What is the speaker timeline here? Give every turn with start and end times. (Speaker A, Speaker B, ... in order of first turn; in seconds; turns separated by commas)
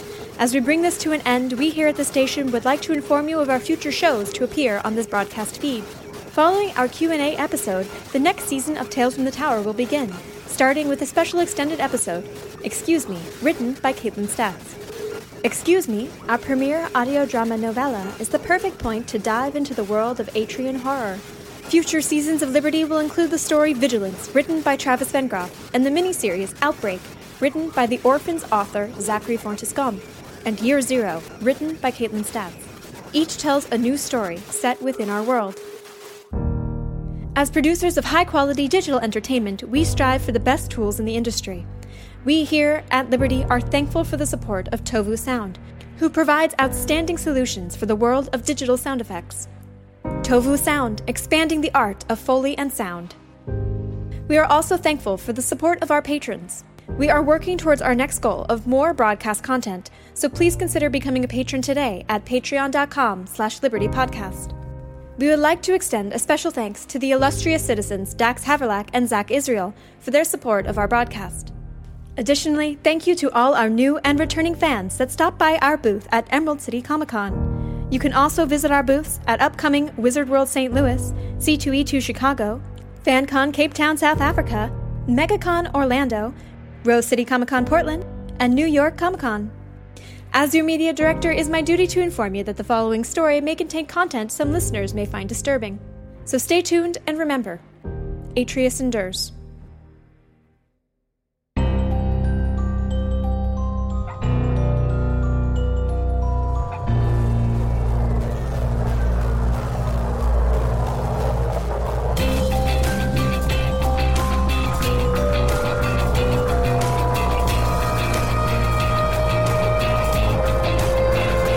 Speaker A: 0.4-14.8, Speaker A: 15.4-35.6, Speaker A: 37.4-41.7, Speaker A: 42.2-49.5, Speaker A: 50.2-53.2, Speaker A: 54.3-64.5, Speaker A: 65.2-71.5, Speaker A: 72.2-89.5, Speaker A: 90.3-97.6, Speaker A: 98.3-99.3